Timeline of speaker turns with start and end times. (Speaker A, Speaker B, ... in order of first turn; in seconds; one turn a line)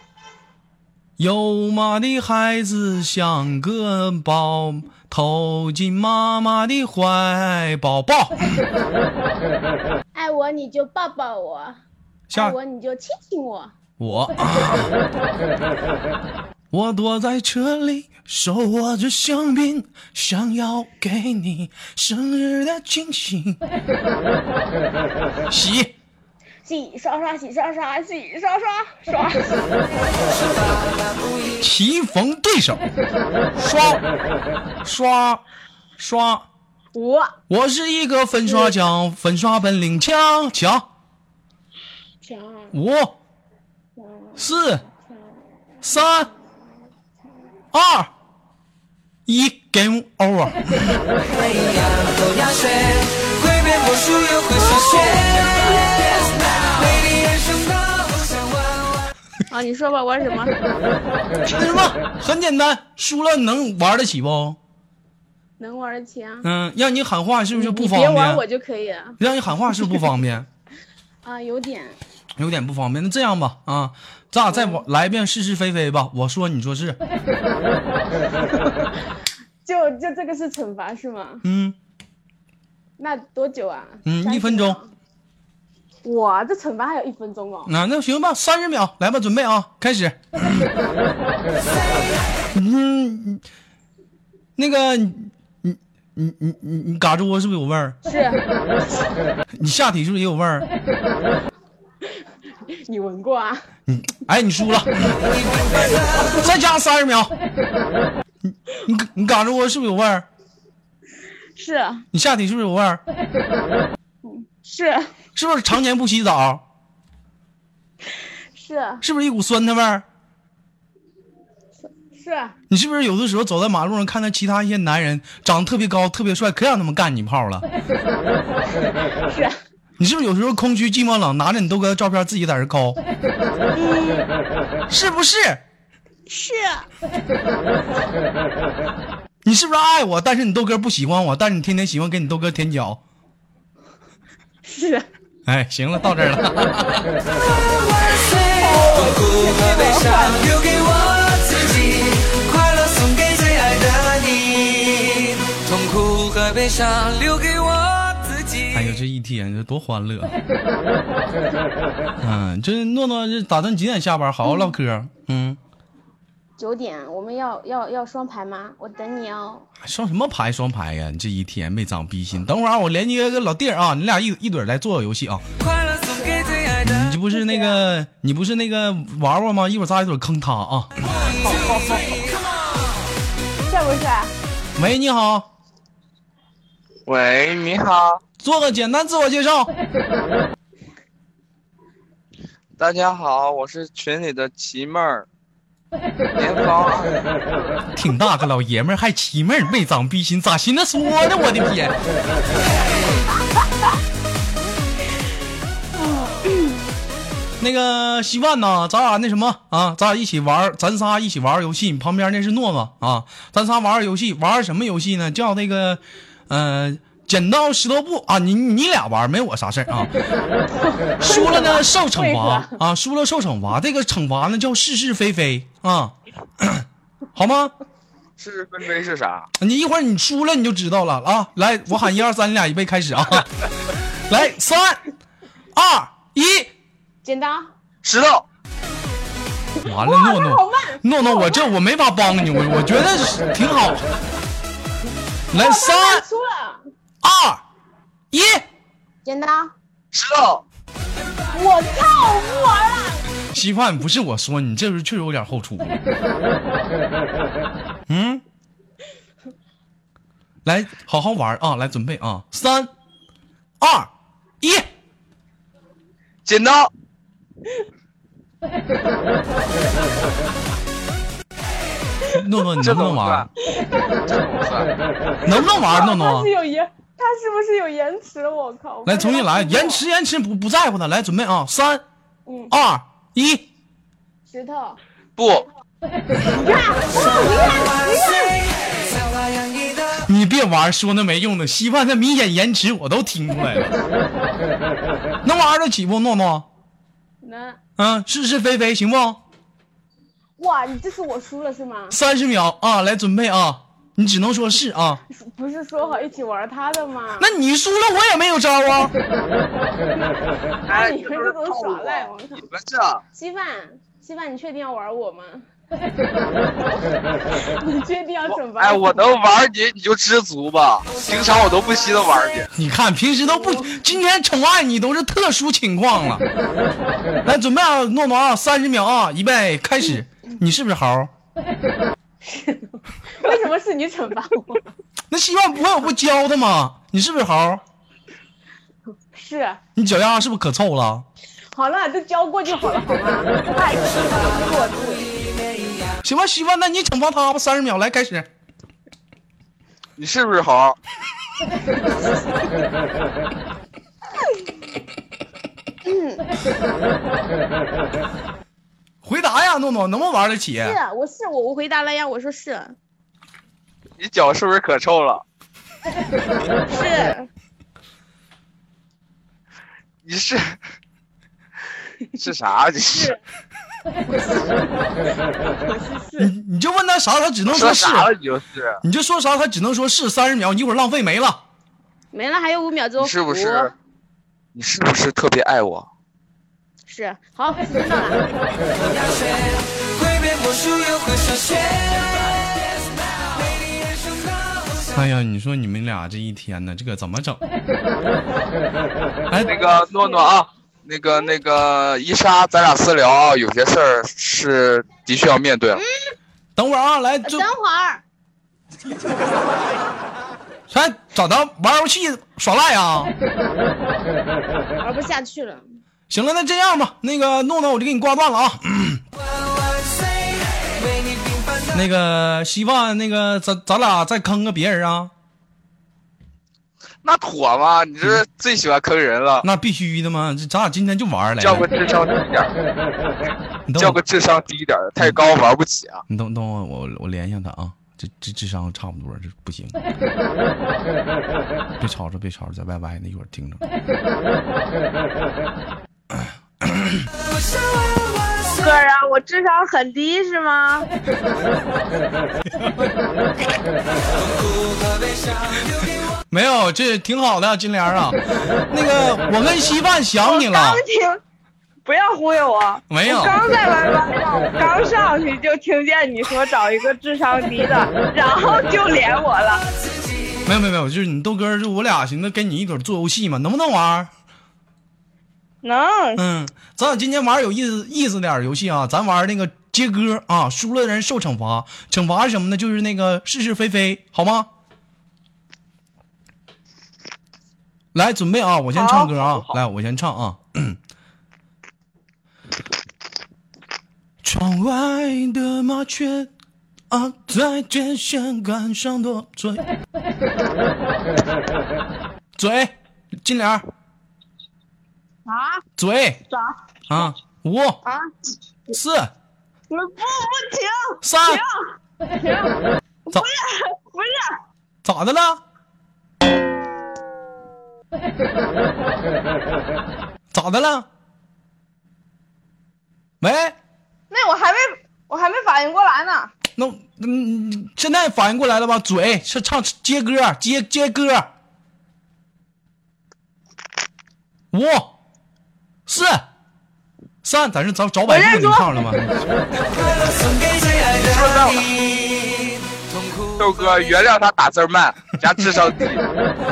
Speaker A: 1.2-8.6
Speaker B: 10.1-11.8
Speaker A: 12.3-12.6
Speaker B: 12.3-13.7
Speaker A: 14.0-14.9
Speaker A: 16.7-23.6
Speaker A: 25.5-25.9
Speaker B: 26.6-29.7
Speaker C: 30.3-31.6
Speaker A: 31.6-32.8
Speaker A: 33.5-34.0
Speaker A: 34.8-35.4
Speaker A: 36.0-36.5
Speaker B: 36.9-37.3
Speaker A: 37.5-40.9
Speaker B: 42.2-42.7
Speaker A: 42.7-43.1
Speaker B: 44.0-45.2
Speaker A: 44.4-44.8
Speaker A: 45.8-46.3
Speaker A: 47.7-48.1
Speaker A: 49.2-51.0
Speaker C: 51.2-55.9
Speaker B: 54.5-56.5
Speaker C: 56.6-59.1
Speaker B: 59.5-60.6
Speaker A: 61.4-64.6
Speaker B: 65.6-66.5
Speaker A: 66.4-68.4
Speaker B: 67.5-69.2
Speaker A: 69.2-70.5
Speaker B: 71.2-72.0
Speaker A: 72.4-77.0
Speaker B: 74.5-74.8
Speaker B: 78.4-79.1
Speaker B: 79.6-81.4
Speaker A: 81.4-81.8
Speaker B: 83.0-84.9
Speaker A: 84.0-84.8
Speaker B: 86.0-87.7
Speaker A: 87.7-90.7
Speaker A: 92.5-93.4
Speaker A: 94.6-98.0
Speaker B: 98.0-99.0
Speaker A: 99.5-100.7
Speaker B: 102.1-103.6
Speaker A: 103.9-105.2
Speaker C: 105.6-106.3
Speaker A: 106.3-107.3
Speaker A: 108.4-110.2
Speaker B: 111.5-112.0
Speaker A: 112.1-113.0
Speaker B: 114.2-115.1
Speaker A: 115.3-116.6
Speaker B: 118.5-119.0
Speaker A: 119.0-120.0
Speaker B: 122.0-122.5
Speaker A: 122.7-127.7
Speaker B: 128.7-129.6
Speaker A: 130.0-133.0
Speaker B: 133.7-134.3
Speaker A: 134.9-135.6
Speaker B: 136.3-136.9
Speaker A: 139.4-143.0
Speaker B: 144.6-145.1
Speaker A: 145.4-147.1
Speaker C: 147.8-158.9
Speaker B: 148.6-150.4
Speaker A: 158.7-160.3
Speaker A: 162.2-165.6
Speaker B: 166.6-169.7
Speaker A: 169.8-175.4
Speaker C: 175.6-177.1
Speaker B: 176.2-176.6
Speaker A: 176.8-180.9
Speaker B: 177.3-177.8
Speaker B: 181.4-182.2
Speaker B: 183.7-184.3
Speaker A: 184.8-185.5
Speaker D: 187.1-188.2
Speaker A: 188.4-189.7
Speaker D: 192.8-195.3
Speaker D: 196.3-197.8
Speaker A: 197.9-202.0
Speaker B: 206.0-206.8
Speaker A: 207.6-220.1
Speaker B: 220.8-222.8
Speaker A: 221.2-227.7
Speaker D: 228.4-229.5
Speaker A: 229.6-233.5
Speaker A: 234.3-235.0
Speaker A: 235.7-236.7
Speaker B: 237.2-237.7
Speaker D: 238.0-238.4
Speaker B: 239.8-241.7
Speaker A: 239.8-244.1
Speaker A: 245.5-246.2
Speaker B: 245.5-246.8
Speaker A: 247.2-247.6
Speaker A: 248.3-248.6
Speaker B: 249.2-249.7
Speaker D: 250.1-250.6
Speaker B: 251.5-253.2
Speaker A: 253.5-256.0
Speaker A: 258.1-258.4
Speaker A: 260.6-262.9
Speaker A: 263.8-264.1
Speaker A: 264.6-264.9
Speaker D: 266.4-266.9
Speaker A: 272.3-273.5
Speaker D: 272.8-273.5
Speaker B: 273.6-274.2
Speaker D: 274.2-274.9
Speaker A: 275.4-276.5
Speaker B: 275.4-280.0
Speaker A: 279.1-282.0
Speaker B: 282.5-282.7
Speaker A: 282.7-283.7
Speaker B: 284.5-285.0
Speaker D: 285.4-285.7
Speaker B: 286.5-288.6
Speaker C: 287.2-290.2
Speaker A: 290.2-294.0
Speaker A: 295.4-296.6
Speaker B: 297.4-297.8
Speaker A: 298.0-299.4
Speaker B: 300.6-302.2
Speaker A: 302.1-305.2
Speaker B: 305.3-307.5
Speaker A: 307.4-309.1
Speaker B: 310.1-312.7
Speaker D: 310.9-313.2
Speaker B: 313.3-315.7
Speaker B: 317.5-319.3
Speaker D: 318.5-322.7
Speaker A: 322.7-326.4
Speaker B: 323.6-324.0
Speaker A: 327.4-331.3
Speaker B: 332.4-334.8
Speaker A: 335.3-337.8
Speaker B: 339.3-339.8
Speaker A: 339.9-341.2
Speaker B: 341.7-345.4
Speaker A: 346.2-348.5
Speaker D: 350.2-351.0
Speaker B: 356.0-356.5
Speaker A: 359.2-361.0
Speaker B: 360.8-362.9
Speaker D: 364.2-365.4
Speaker B: 366.9-367.5
Speaker D: 370.2-370.8
Speaker D: 372.3-373.4
Speaker B: 374.2-374.9
Speaker B: 375.6-376.5
Speaker A: 376.4-378.3
Speaker D: 377.7-379.0
Speaker A: 379.0-381.6
Speaker B: 382.3-383.9
Speaker D: 383.2-383.9
Speaker D: 384.7-386.1
Speaker B: 387.1-388.4
Speaker C: 388.9-395.0
Speaker A: 395.1-397.6
Speaker A: 399.5-399.7
Speaker D: 399.5-406.0
Speaker B: 399.9-400.5
Speaker A: 406.8-407.7
Speaker B: 407.4-408.2
Speaker A: 410.9-413.3
Speaker B: 415.0-415.8
Speaker A: 416.3-419.2
Speaker C: 419.4-421.9
Speaker A: 421.9-425.3
Speaker D: 427.2-429.6
Speaker A: 429.6-431.9
Speaker D: 431.6-432.7
Speaker A: 433.9-434.2
Speaker D: 434.0-436.2
Speaker A: 436.3-439.9
Speaker A: 442.0-443.8
Speaker A: 446.3-447.3
Speaker C: 447.6-448.8
Speaker E: 448.8-451.1
Speaker A: 452.7-453.1
Speaker C: 454.4-456.2
Speaker A: 456.5-458.4
Speaker A: 458.9-461.0
Speaker E: 460.4-461.4
Speaker E: 462.0-469.8
Speaker A: 463.1-463.6
Speaker A: 470.6-474.3
Speaker E: 475.8-476.4
Speaker A: 476.4-484.7
Speaker A: 488.1-491.0
Speaker E: 488.9-489.6
Speaker A: 494.4-496.5
Speaker A: 497.1-499.8
Speaker A: 502.6-503.9
Speaker E: 505.5-505.8
Speaker A: 506.0-506.4
Speaker E: 506.5-506.8
Speaker A: 507.1-508.0
Speaker E: 508.0-508.3
Speaker A: 508.9-509.3
Speaker E: 509.9-511.8
Speaker A: 511.2-511.6
Speaker E: 512.4-512.7
Speaker E: 513.3-514.6
Speaker A: 515.0-515.6
Speaker A: 520.5-521.1
Speaker A: 523.4-523.8
Speaker E: 524.3-526.5
Speaker A: 526.8-531.5
Speaker A: 534.7-535.1
Speaker A: 536.1-536.5
Speaker A: 537.4-539.5
Speaker E: 538.3-538.9
Speaker C: 539.9-544.1
Speaker D: 541.3-541.9
Speaker D: 543.6-546.2